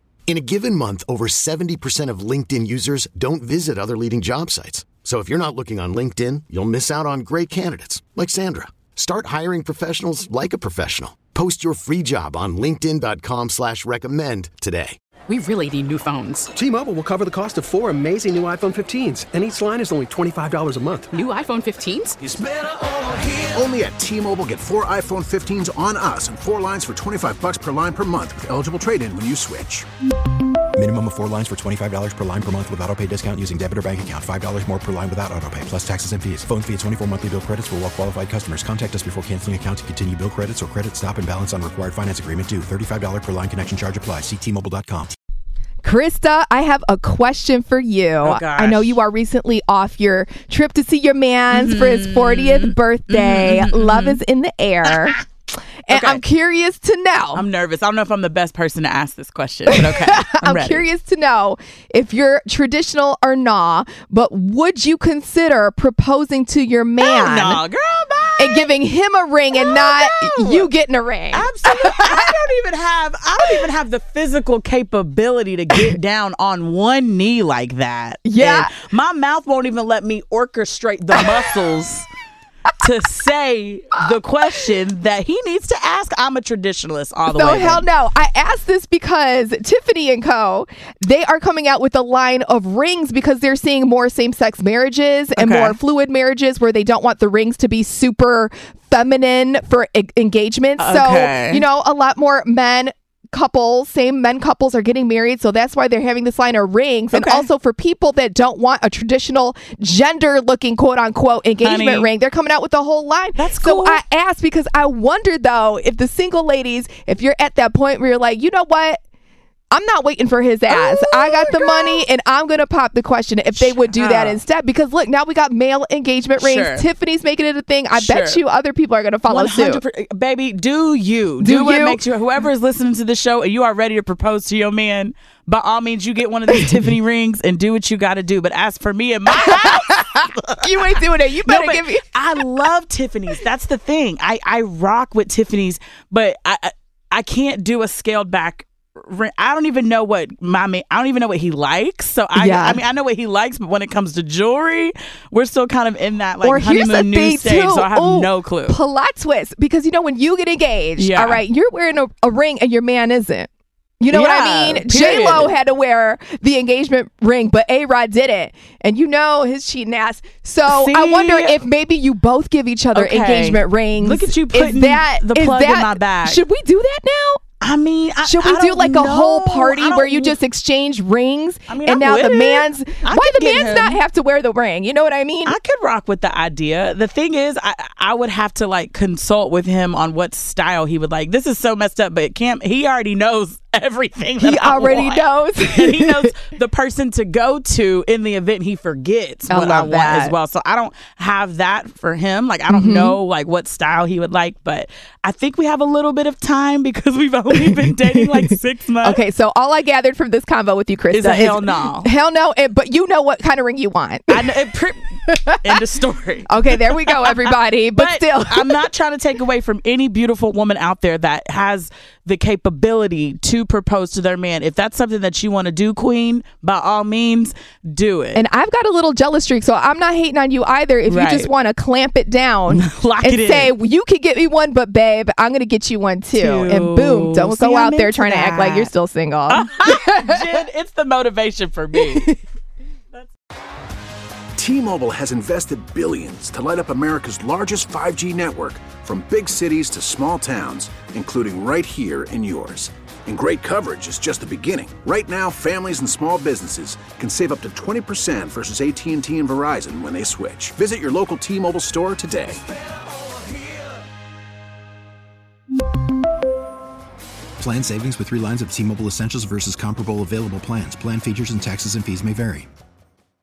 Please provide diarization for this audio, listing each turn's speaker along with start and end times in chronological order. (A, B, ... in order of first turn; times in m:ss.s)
0:00.3-0:15.0 A
0:15.3-0:16.5 B
0:16.6-0:21.1 C
0:21.1-0:22.2 B
0:22.2-0:29.8 D
0:30.8-0:45.2 E
0:45.8-0:55.2 F
0:48.2-0:49.0 G
0:51.5-0:54.2 G
0:55.9-0:57.4 F
0:55.9-0:56.2 G
0:57.3-1:00.9 G
0:59.7-1:07.6 F
1:07.0-1:08.7 G
1:08.4-1:12.2 F
1:09.5-1:10.7 G
1:11.3-1:22.0 G
1:18.2-1:18.7 F
1:22.8-1:27.9 G
1:27.3-1:59.0 F
1:35.4-1:35.8 G
1:40.8-1:41.6 G
1:47.1-1:47.5 G
1:51.6-1:52.1 G
1:53.4-1:54.0 G
1:59.7-2:09.8 F
2:00.7-2:02.0 G
2:03.6-2:04.4 G
2:06.4-2:06.9 G
2:07.9-2:08.4 G
2:09.3-2:38.8 G
2:11.4-2:12.0 F
2:19.3-2:22.1 F
2:32.4-2:32.8 F
2:36.4-2:43.5 F
2:41.0-2:41.4 G
2:44.0-2:57.4 F
2:44.1-2:45.5 G
2:50.7-2:51.6 G
2:52.9-2:56.4 G
2:57.6-3:00.4 G
2:58.2-3:05.6 F
3:01.7-3:04.0 G
3:05.4-3:29.2 G
3:14.4-3:16.3 F
3:19.5-3:20.4 F
3:22.7-3:23.2 F
3:27.5-3:28.4 F
3:29.0-3:34.5 F
3:31.1-3:32.1 G
3:34.3-3:48.4 G
3:35.2-3:35.6 F
3:36.5-3:38.8 F
3:48.3-4:00.4 F
3:51.1-3:51.5 G
3:52.7-3:53.7 G
3:56.4-3:58.9 G
3:59.5-4:02.4 G
4:02.0-4:02.3 F
4:04.6-4:22.6 D
4:27.6-4:32.7 E